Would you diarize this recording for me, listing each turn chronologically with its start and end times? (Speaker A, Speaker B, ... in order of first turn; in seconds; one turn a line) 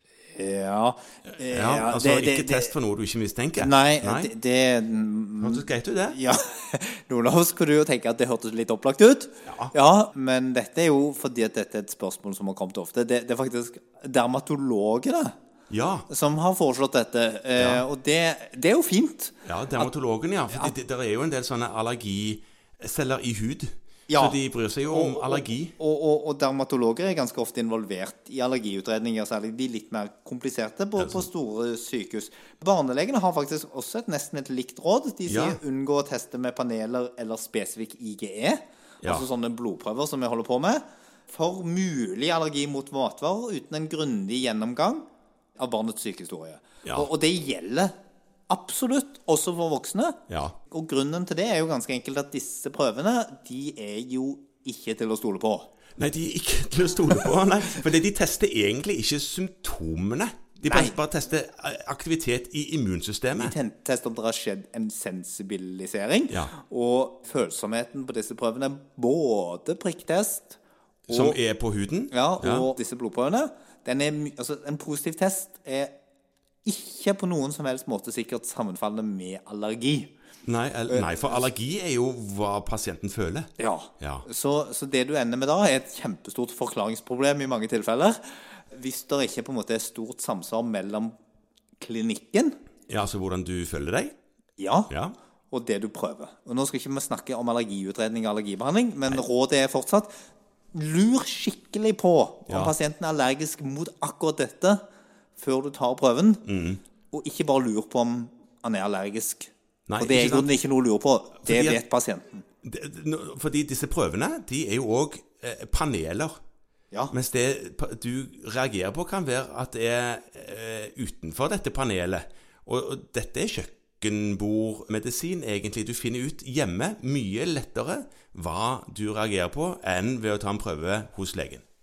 Speaker A: 0.3-2.7
Speaker B: 1.4-4.3
Speaker A: 3.6-15.3
Speaker B: 5.4-6.2
Speaker B: 9.4-9.7
Speaker B: 15.7-16.1
Speaker A: 16.1-19.9
Speaker B: 17.6-17.8
Speaker B: 19.4-25.7
Speaker A: 24.1-24.4
Speaker A: 24.9-45.0
Speaker B: 31.0-31.3
Speaker B: 35.3-35.6
Speaker A: 45.6-47.9
Speaker B: 46.8-47.1
Speaker A: 48.5-55.7
Speaker B: 50.3-50.5
Speaker B: 56.0-63.5
Speaker A: 60.6-60.9
Speaker A: 63.4-70.6
Speaker B: 71.1-72.7
Speaker A: 71.1-71.3
Speaker A: 72.1-75.9
Speaker A: 76.6-80.1
Speaker B: 80.4-84.2
Speaker A: 80.9-81.4
Speaker A: 83.6-91.1
Speaker A: 91.8-92.5
Speaker B: 92.9-94.1
Speaker A: 94.6-94.9
Speaker B: 94.9-95.2
Speaker A: 95.5-100.1
Speaker A: 100.7-104.8
Speaker B: 102.5-102.7
Speaker A: 105.4-106.4
Speaker B: 106.5-106.8
Speaker A: 107.1-112.4
Speaker B: 109.9-110.5
Speaker B: 111.4-111.8
Speaker B: 112.6-116.4
Speaker B: 117.1-131.6